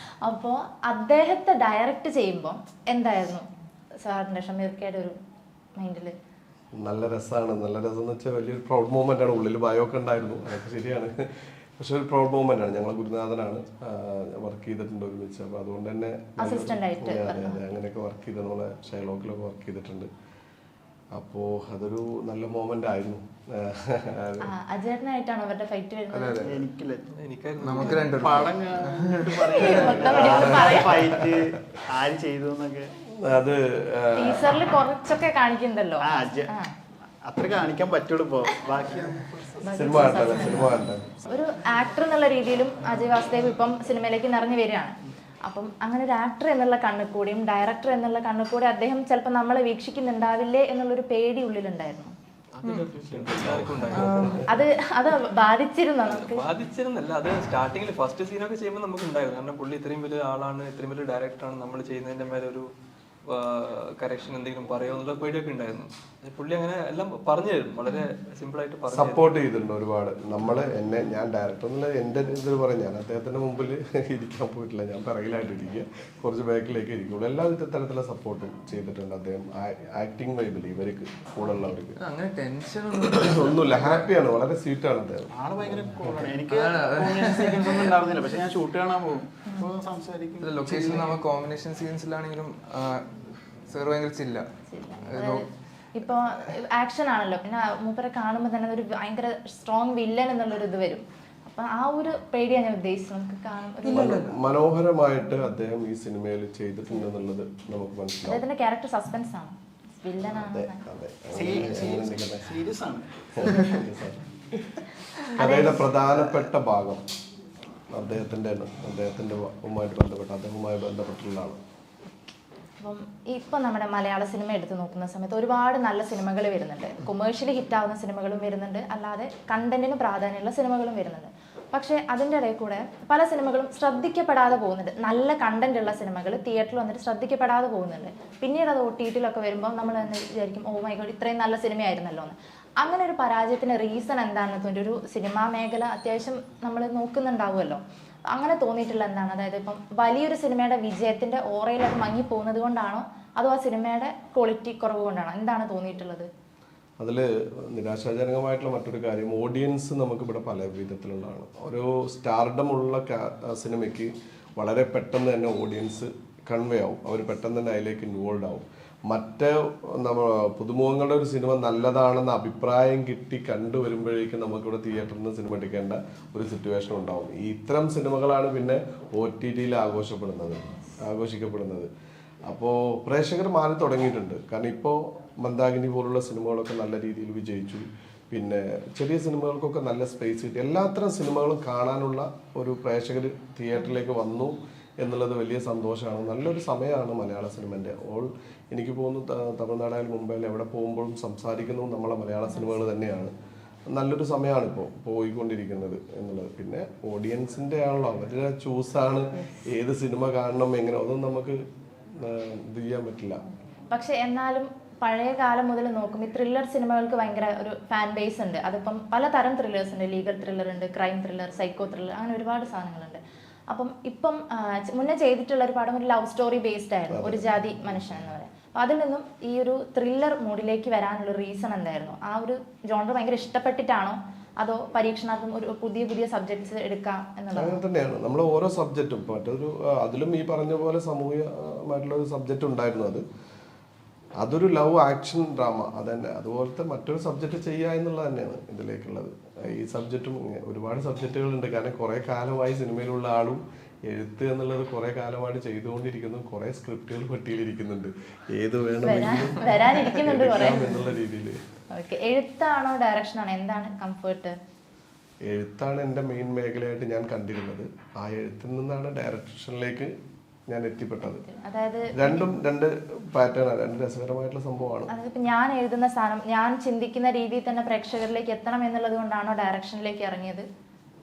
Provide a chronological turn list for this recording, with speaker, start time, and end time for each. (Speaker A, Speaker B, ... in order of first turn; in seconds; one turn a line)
Speaker A: 0.2-3.5
Speaker A: 4.0-5.2
Speaker A: 5.8-6.2
Speaker B: 6.7-20.1
Speaker A: 16.4-17.6
Speaker B: 21.1-24.5
Speaker A: 24.4-26.6
Speaker B: 26.1-26.6
Speaker C: 26.3-27.1
Speaker D: 27.1-28.2
Speaker E: 27.6-30.1
Speaker A: 27.7-28.1
Speaker C: 28.1-32.9
Speaker A: 29.5-31.1
Speaker B: 30.1-31.4
Speaker B: 33.2-34.6
Speaker A: 34.2-36.7
Speaker C: 36.0-36.5
Speaker C: 37.2-40.2
Speaker A: 39.6-52.1
Speaker B: 39.7-41.2
Speaker D: 52.5-54.4
Speaker B: 53.1-54.6
Speaker A: 53.9-56.5
Speaker D: 56.0-62.7
Speaker D: 63.2-69.3
Speaker A: 67.8-68.1
Speaker B: 68.9-82.0
Speaker E: 82.0-84.1
Speaker B: 83.0-85.3
Speaker C: 85.3-91.2
Speaker E: 86.5-87.9
Speaker A: 89.5-89.7
Speaker E: 90.4-93.1
Speaker E: 93.7-94.5
Speaker A: 94.7-104.2
Speaker E: 95.0-95.5
Speaker E: 103.8-104.4
Speaker B: 103.9-108.4
Speaker A: 108.3-110.8
Speaker B: 110.2-112.5
Speaker C: 111.3-113.3
Speaker B: 113.3-114.8
Speaker A: 115.3-115.8
Speaker B: 115.3-117.0
Speaker B: 117.9-121.6
Speaker A: 122.8-156.3
Speaker B: 157.0-181.9
Speaker B: 182.4-203.3
Speaker A: 202.5-202.8
Speaker B: 203.9-213.4
Speaker A: 209.4-209.7
Speaker A: 213.9-237.8
Speaker B: 227.1-227.8
Speaker B: 237.5-243.2
Speaker B: 244.4-261.6
Speaker A: 259.0-261.0
Speaker A: 261.9-264.6
Speaker B: 265.4-270.1
Speaker B: 270.7-271.4
Speaker A: 271.2-272.5
Speaker B: 272.1-275.1
Speaker A: 275.1-280.6